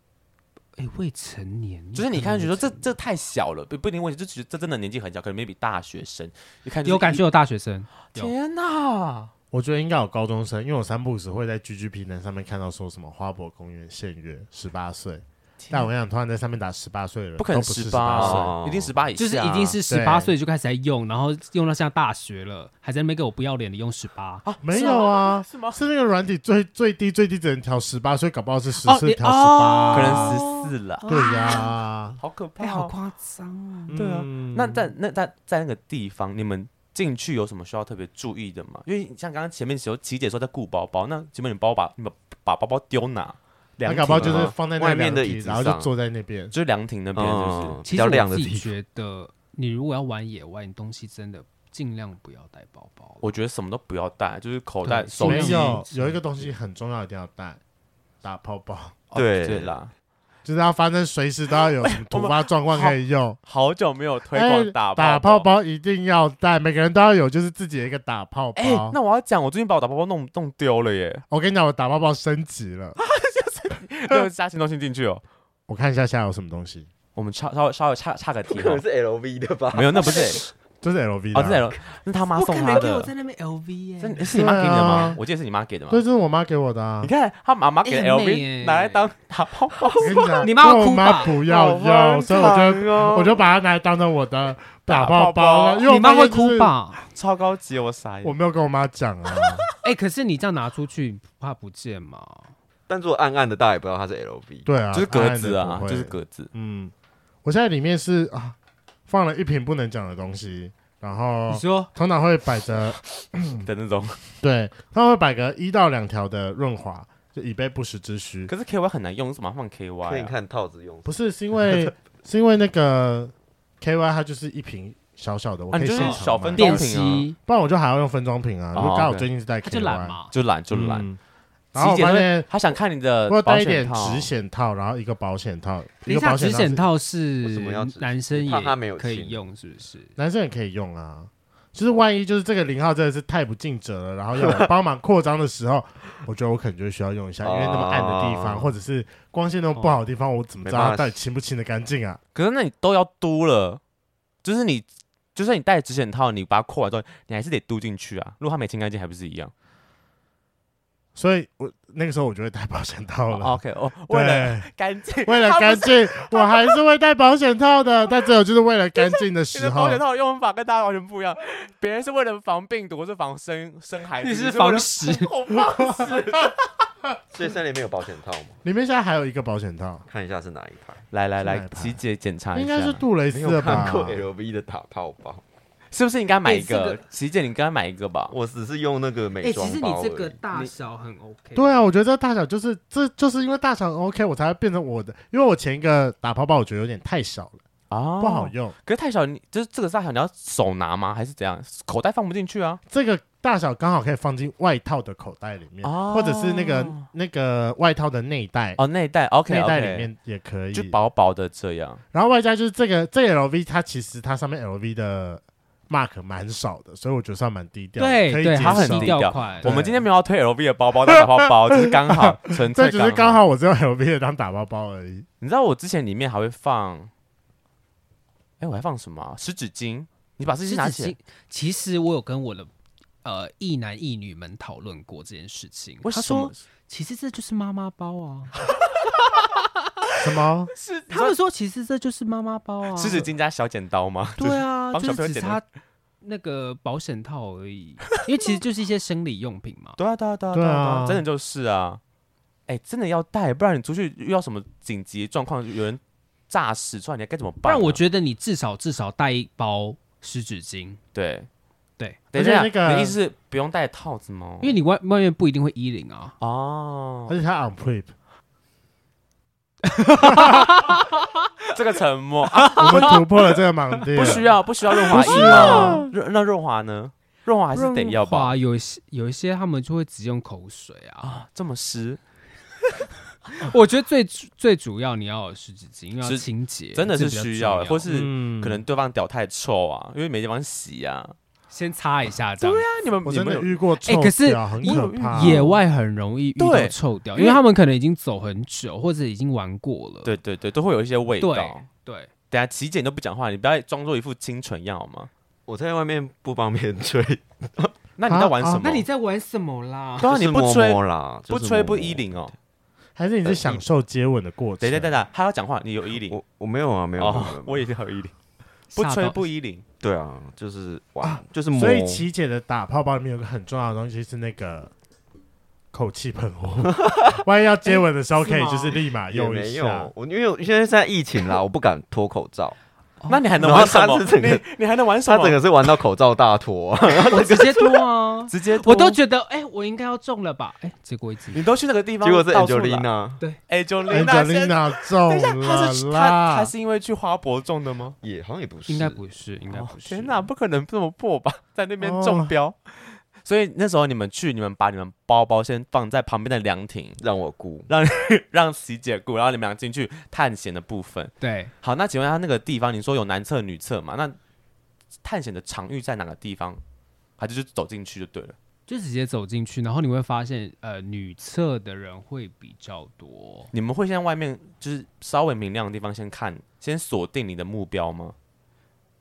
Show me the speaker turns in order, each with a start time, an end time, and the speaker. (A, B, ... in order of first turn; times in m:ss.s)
0:00.8-0:02.8 A
0:02.0-0:07.2 B
0:06.8-0:08.3 A
0:08.1-0:09.3 B
0:09.5-0:18.5 C
0:15.6-0:15.9 B
0:17.4-0:19.8 B
0:18.2-0:19.0 D
0:19.2-0:24.4 A
0:19.9-0:20.3 C
0:24.4-0:25.8 B
0:24.6-0:30.4 C
0:28.8-0:31.7 A
0:29.9-0:31.0 B
0:31.1-0:32.2 C
0:32.2-0:32.9 B
0:32.6-0:34.0 A
0:33.9-0:34.9 C
0:33.9-0:44.5 B
0:43.8-0:46.5 C
0:44.1-0:45.9 D
0:46.5-0:47.8 B
0:47.1-0:48.7 D
0:47.8-0:53.3 A
0:53.2-0:55.8 B
0:54.8-0:56.5 A
0:55.2-0:57.6 C
0:58.2-0:59.0 C
0:59.1-0:59.9 B
0:59.2-0:59.8 D
1:00.4-1:03.4 C
1:01.7-1:05.5 B
1:04.3-1:09.0 C
1:08.6-1:11.2 B
1:11.3-1:13.0 C
1:13.0-1:15.2 B
1:15.7-1:16.9 C
1:17.2-1:18.8 B
1:18.5-1:20.5 D
1:19.7-1:20.4 B
1:20.8-1:21.7 C
1:21.3-1:23.1 B
1:22.4-1:24.9 A
1:24.0-1:26.0 B
1:24.3-1:25.2 C
1:25.9-1:27.1 C
1:27.0-1:30.4 B
1:27.8-1:29.1 A
1:30.0-1:36.7 C
1:30.4-1:31.4 A
1:31.4-1:33.5 D
1:32.4-1:32.6 B
1:34.9-1:35.9 B
1:35.8-1:37.0 A
1:37.1-1:38.4 B
1:38.2-1:39.7 C
1:39.8-1:42.5 A
1:42.9-1:44.7 D
1:44.7-1:46.9 C
1:44.9-1:46.5 B
1:47.4-1:48.6 C
1:49.1-1:53.7 C
1:51.5-1:51.9 A
1:53.6-1:54.3 B
1:54.4-1:58.5 C
1:58.5-2:00.3 B
2:00.0-2:01.1 D
2:01.1-2:06.9 C
2:05.7-2:07.3 B
2:06.0-2:07.4 A
2:07.5-2:10.2 C
2:08.7-2:09.3 B
2:09.6-2:10.3 A
2:10.3-2:11.1 B
2:10.7-2:11.2 C
2:11.7-2:12.5 C
2:11.8-2:14.3 B
2:13.3-2:16.9 C
2:16.1-2:20.1 A
2:17.4-2:19.4 D
2:20.2-2:32.2 C
2:24.4-2:24.7 D
2:27.4-2:28.7 D
2:30.6-2:31.2 D
2:32.4-2:33.8 B
2:34.4-2:39.5 B
2:41.2-2:44.7 C
2:43.3-2:46.8 B
2:45.2-2:50.0 C
2:49.1-2:56.2 B
2:54.2-2:55.3 A
2:55.5-2:56.2 C
2:55.8-2:56.5 D
2:57.3-2:58.6 D
2:58.6-3:00.0 C
3:00.1-3:01.0 D
3:01.1-3:03.0 B
3:01.4-3:02.0 C
3:02.5-3:04.2 C
3:03.3-3:05.4 D
3:05.9-3:08.3 B
3:06.4-3:07.0 A
3:08.3-3:10.4 D
3:09.4-3:11.8 A
3:11.6-3:17.6 C
3:17.9-3:22.8 B
3:18.2-3:18.8 C
3:22.9-3:28.8 C
3:25.8-3:27.1 B
3:28.8-3:30.1 B
3:29.5-3:31.0 C
3:30.7-3:32.0 B
3:32.1-3:40.0 C
3:38.0-3:39.7 A
3:38.6-3:43.4 B
3:41.0-3:45.3 C
3:45.4-3:47.1 B
3:48.6-3:51.2 B
3:50.7-3:52.7 A
3:53.2-3:58.5 A
3:56.0-3:56.6 B
3:58.6-3:59.5 B
4:00.2-4:00.7 C
4:00.8-4:01.4 B
4:01.1-4:03.3 A
4:03.0-4:05.6 B
4:04.4-4:05.6 A
4:06.2-4:10.0 A
4:10.0-4:12.0 B
4:10.5-4:11.2 C
4:12.7-4:18.0 B
4:17.6-4:21.0 A
4:21.1-4:21.5 B
4:22.3-4:24.8 B
4:22.4-4:23.2 C
4:24.6-4:26.4 A
4:26.4-4:27.4 B
4:27.3-4:28.1 C
4:29.8-4:31.4 A
4:30.3-4:30.7 C
4:31.7-4:33.2 B
4:32.5-4:33.2 A
4:32.8-4:34.5 C
4:34.1-4:36.1 A
4:34.1-4:38.5 B
4:35.1-4:36.1 C
4:37.7-4:41.4 A
4:41.2-4:42.2 B
4:43.6-4:48.1 A
4:46.2-4:51.4 B
4:48.1-4:48.8 C
4:51.7-4:52.9 A
4:52.6-4:53.8 B
4:53.2-4:55.6 C
4:54.0-5:00.3 A
4:54.8-4:55.8 B
4:56.6-4:57.6 B
5:00.2-5:01.8 B
5:01.4-5:02.3 A
5:02.5-5:05.3 B
5:05.7-5:08.0 D
5:08.2-5:09.1 B
5:08.3-5:08.9 C
5:08.8-5:10.3 A
5:10.2-5:12.3 D
5:10.2-5:12.5 B
5:13.2-5:15.2 C
5:13.4-5:13.8 D
5:14.8-5:16.4 B
5:16.1-5:17.8 D
5:17.2-5:18.3 B
5:18.9-5:19.8 B
5:19.0-5:19.4 A
5:20.0-5:22.2 D
5:21.2-5:24.9 C
5:25.9-5:30.1 C
5:26.8-5:27.4 D
5:28.4-5:29.0 A
5:29.3-5:32.8 D
5:33.2-5:33.9 A
5:33.3-5:35.6 B
5:33.6-5:34.6 D
5:35.2-5:38.0 D
5:37.3-5:41.6 A
5:38.5-5:39.2 B
5:41.5-5:43.1 B
5:42.2-5:43.4 D
5:43.7-5:48.2 B
5:44.1-5:46.7 C
5:48.2-5:49.2 D
5:48.9-5:50.5 A
5:49.7-5:57.2 B
5:52.0-5:52.5 C
5:57.2-5:57.9 D
5:57.9-6:04.4 B
6:01.4-6:01.7 A
6:05.2-6:06.8 B
6:07.4-6:08.6 B
6:08.9-6:13.7 A
6:13.7-6:18.4 B